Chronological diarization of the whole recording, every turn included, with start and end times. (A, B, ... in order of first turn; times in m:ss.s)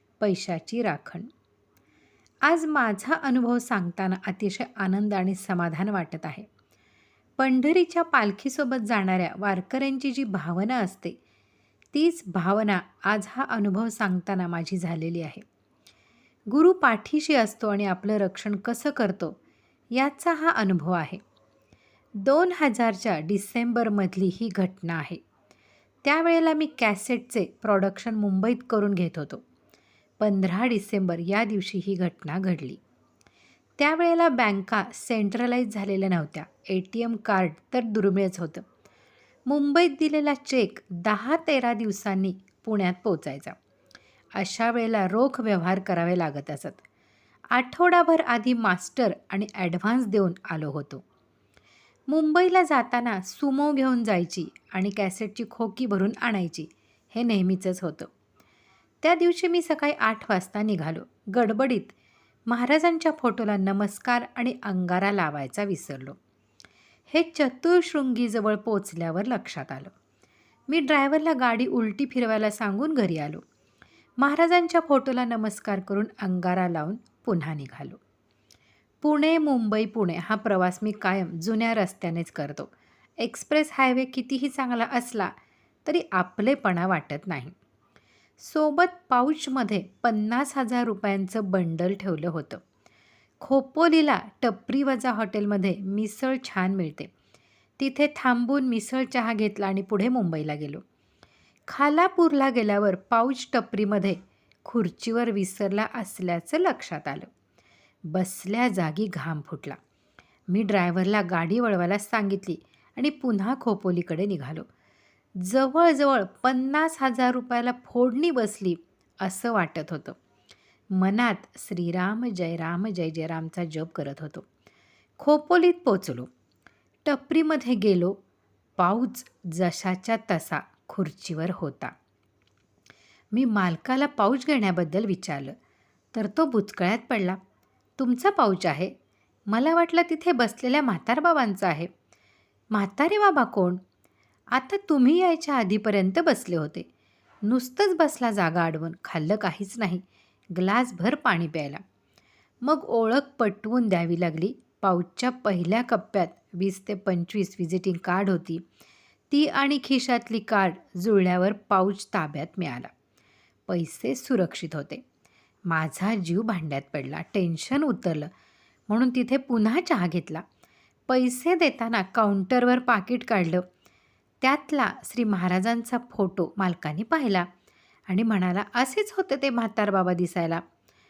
0:00.2-0:01.3 A
0:02.4-0:06.5 A
0:07.4-0:11.2 A
0:11.9-0:15.4 A
0:16.5-0:19.4 A
0:19.9-0:21.2 A
0:22.2-0:25.2 A
0:26.0-0:29.4 A
0:30.2-0:32.8 A
0:33.8-0:38.6 A
0:39.5-0:43.6 A
0:44.4-0:46.8 A
0:47.5-0:51.0 A
0:52.1-0:58.1 A
0:59.0-1:01.9 A
1:02.5-1:06.2 A
1:07.1-1:09.9 A
1:10.7-1:13.4 A
1:14.2-1:18.0 A
1:19.0-1:25.3 A
1:25.8-1:27.5 A
1:28.4-1:32.6 A
1:33.4-1:37.1 A
1:37.8-1:40.8 A
1:41.7-1:47.3 A
1:48.1-1:49.8 A
1:50.5-1:54.7 A
1:55.4-2:00.2 A
2:00.9-2:04.4 A
2:05.2-2:06.3 A
2:07.0-2:08.2 A
2:08.8-2:11.9 A
2:13.3-2:15.5 A
2:16.1-2:17.4 A
2:18.0-2:18.9 A
2:19.5-2:21.9 A
2:22.7-2:23.8 A
2:24.5-2:26.9 A
2:27.4-2:30.0 A
2:30.5-2:31.8 A
2:32.6-2:38.6 A
2:39.3-2:42.9 A
2:43.7-2:45.0 A
2:45.7-2:48.3 A
2:48.9-2:50.4 A
2:51.1-2:53.6 A
2:54.4-2:57.5 A
2:58.1-3:00.6 A